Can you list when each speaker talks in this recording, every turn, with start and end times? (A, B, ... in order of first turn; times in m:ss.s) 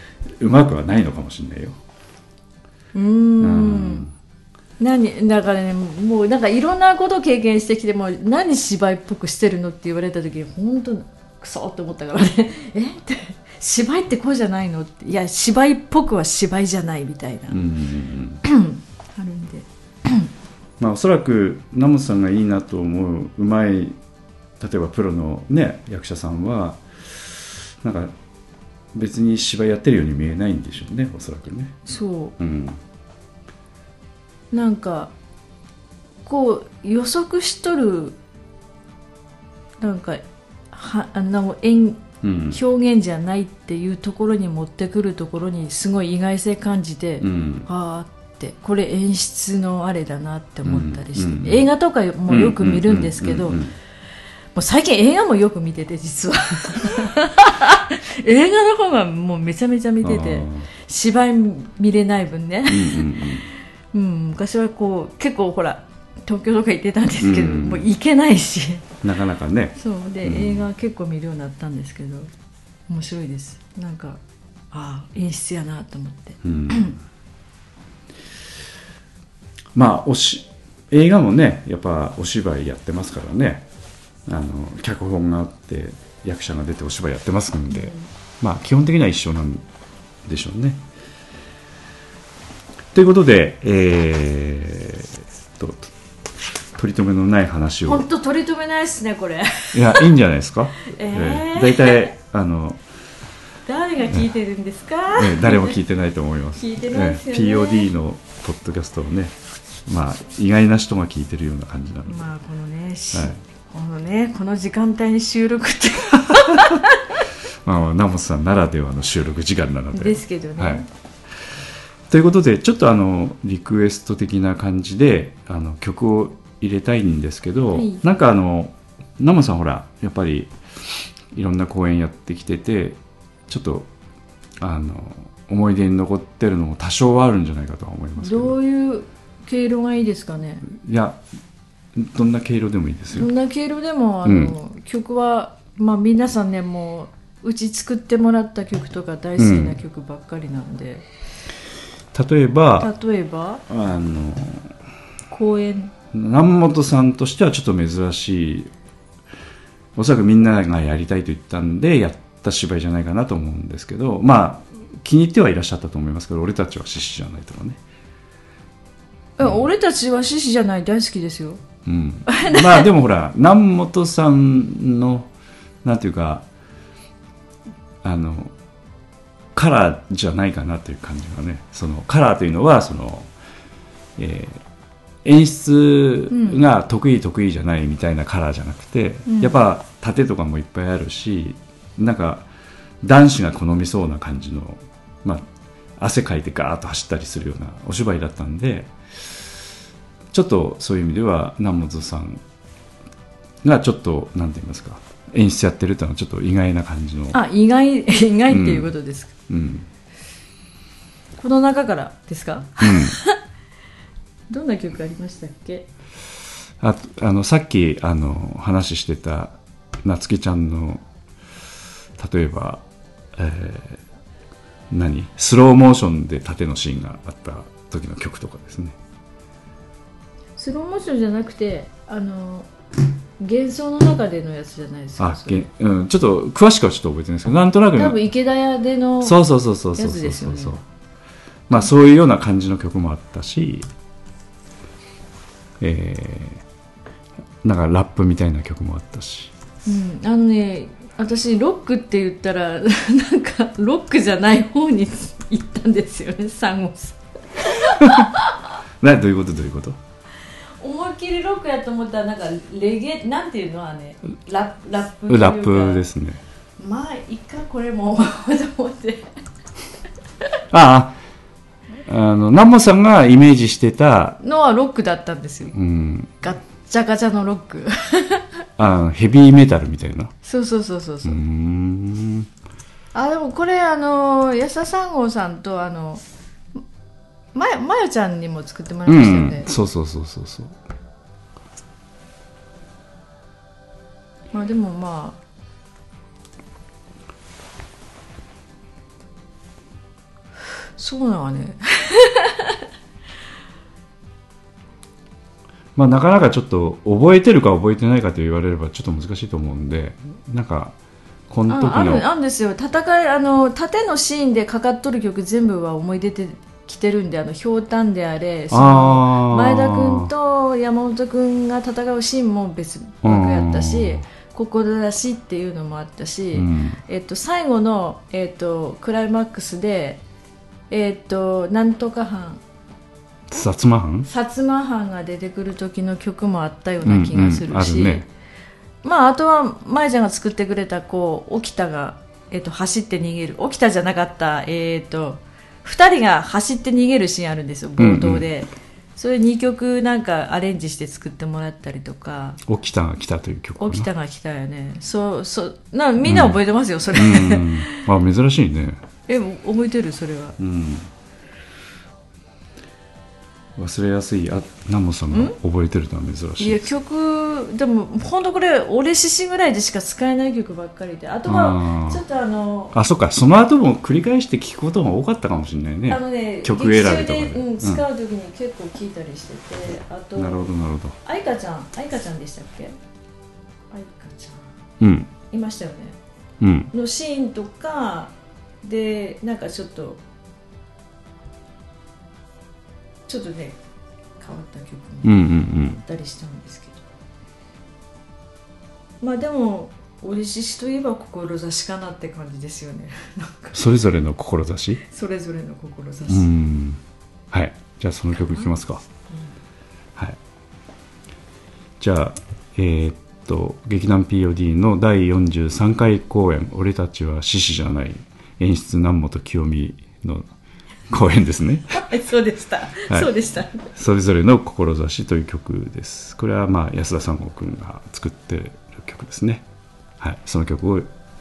0:00.4-0:01.8 A
0:02.9-0:04.1 B
0:03.4-0:04.1 A
0:04.8-0:17.6 B
0:17.5-0:18.4 A
0:18.4-0:20.3 B
0:20.8-0:24.0 A
0:24.6-0:28.1 A
0:28.9-0:31.8 A
0:31.8-0:32.3 B
0:32.4-0:32.8 A
0:34.5-0:35.1 B
0:36.2-0:38.2 B
0:39.8-0:53.6 B
0:42.2-0:42.6 A
0:47.2-0:47.7 A
0:50.6-0:51.7 A
0:52.3-0:53.7 A
0:54.5-1:08.9 B
1:00.0-1:00.7 A
1:02.7-1:03.5 A
1:07.2-1:07.9 A
1:09.0-1:10.6 A
1:09.8-1:12.3 B
1:12.9-1:14.2 B
1:14.7-1:17.0 B
1:16.4-1:17.0 A
1:19.7-1:23.7 A
1:24.2-1:29.6 A
1:27.7-1:28.1 B
1:30.2-1:30.8 A
1:32.9-1:35.9 A
1:36.7-1:38.1 A
1:37.8-1:40.1 B
1:39.7-1:42.8 A
1:40.8-1:42.1 B
1:43.6-1:45.8 B
1:45.1-1:52.3 A
1:46.6-1:47.9 B
1:52.1-1:57.0 B
1:53.1-1:53.4 A
1:57.6-2:00.8 A
1:59.9-2:00.9 B
2:02.1-2:10.5 A
2:07.7-2:08.0 B
2:11.3-2:13.9 A
2:14.6-2:18.6 A
2:18.2-2:20.6 B
2:20.6-2:21.2 A
2:21.9-2:23.3 A
2:23.1-2:31.0 B
2:24.2-2:24.5 A
2:29.4-2:29.8 A
2:32.1-2:32.9 A
2:32.8-2:33.6 B
2:33.7-2:34.7 A
2:35.3-2:35.9 B
2:36.1-2:38.7 A
2:40.0-2:47.8 A
2:49.4-2:51.6 B
2:51.8-2:55.3 A
2:52.3-2:52.8 B
2:55.8-2:56.4 A
2:58.0-2:58.5 A
2:59.5-3:03.3 A
3:04.2-3:04.6 A
3:05.2-3:12.5 A
3:06.3-3:06.6 B
3:09.2-3:09.6 B
3:13.0-3:19.4 A
3:20.3-3:22.4 A
3:23.6-3:27.4 A
3:27.3-3:29.3 B
3:28.5-3:28.9 A
3:29.5-3:29.9 A
3:31.4-3:33.4 B
3:32.8-3:33.2 A
3:34.5-3:35.9 B
3:36.8-3:41.0 A
3:42.2-3:42.8 A
3:43.3-3:44.0 A
3:44.9-3:49.0 A
3:50.6-3:52.7 B
3:53.4-3:55.6 B
3:55.2-3:58.2 A
3:57.9-3:59.4 B
3:59.2-4:00.8 A
4:00.0-4:00.8 B
4:01.7-4:03.9 A
4:05.8-4:06.6 A
4:07.6-4:09.5 A
4:09.8-4:18.5 B
4:17.8-4:18.3 A
4:19.0-4:20.0 A
4:20.8-4:26.0 B
4:25.3-4:26.4 A
4:26.8-4:29.3 B
4:30.7-4:31.2 A
4:32.0-4:34.4 A
4:34.4-4:35.8 B
4:35.7-4:36.3 A
4:36.4-4:38.5 B
4:38.8-4:40.3 A
4:40.4-4:41.4 B
4:41.2-4:42.5 A
4:43.1-4:46.2 B
4:47.5-4:49.7 B
4:49.0-4:50.8 A
4:54.5-4:55.4 B
5:01.0-5:02.8 B
5:06.0-5:10.9 A
5:11.5-5:12.2 A
5:11.7-5:30.2 B
5:18.7-5:20.3 A
5:23.2-5:24.2 A
5:26.5-5:27.0 A
5:30.9-5:32.6 B
5:33.5-5:34.3 A
5:34.2-5:38.3 B
5:37.0-5:38.2 A
5:39.0-5:52.6 B
5:48.0-5:48.4 A
5:52.6-5:54.1 A
5:53.8-5:58.0 B
5:56.2-5:56.6 A
5:57.1-5:59.0 A
5:59.3-6:00.6 B
6:00.6-6:01.1 A
6:03.8-6:06.9 A
6:05.3-6:05.6 B
6:06.6-6:12.9 B
6:11.5-6:12.2 A
6:12.9-6:18.0 A
6:16.1-6:20.7 B
6:20.4-6:21.2 A
6:21.2-6:23.0 B
6:23.9-6:24.7 B
6:25.0-6:25.3 A
6:25.5-6:26.2 B
6:26.6-6:26.9 A
6:26.9-6:30.2 B
6:33.3-6:33.8 B
6:34.4-6:37.0 B
6:35.2-6:36.0 A
6:39.2-6:43.9 B
6:43.7-6:45.0 A
6:45.0-6:46.5 B
6:46.3-6:49.0 A
6:48.3-6:48.7 B
6:49.3-6:49.5 B
6:52.0-7:00.5 A
7:01.1-7:02.0 A
7:01.9-7:03.9 B
7:03.8-7:09.6 A
7:10.2-7:11.1 A